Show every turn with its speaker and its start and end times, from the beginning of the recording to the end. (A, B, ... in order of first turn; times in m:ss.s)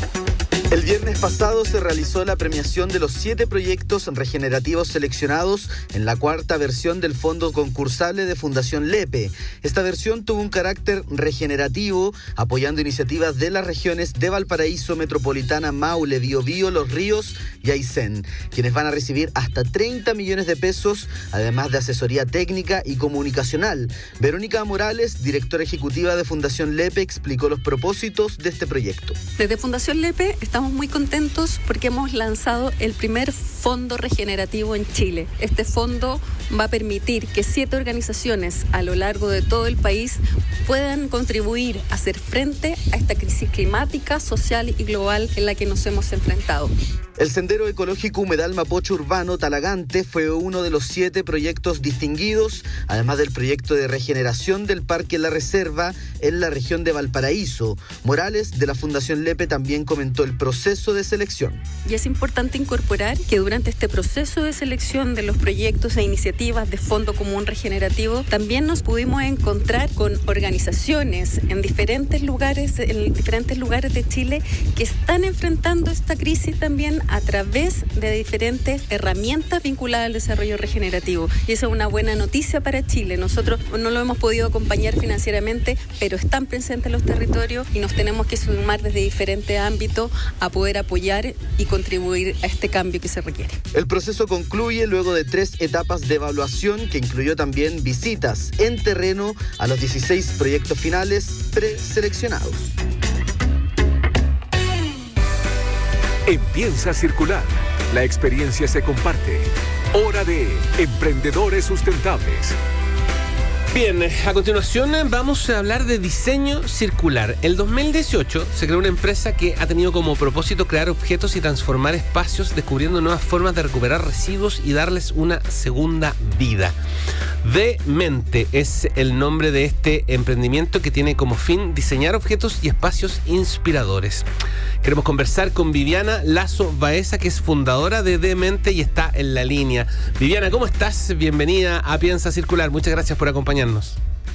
0:00.7-0:29.2 A
0:29.4-0:46.7 B
0:47.2-1:01.6 A
1:01.8-1:33.6 B
1:33.7-1:42.7 A
1:46.2-1:52.6 C
1:53.7-2:06.8 D
2:07.4-2:14.3 D
2:14.8-2:24.0 D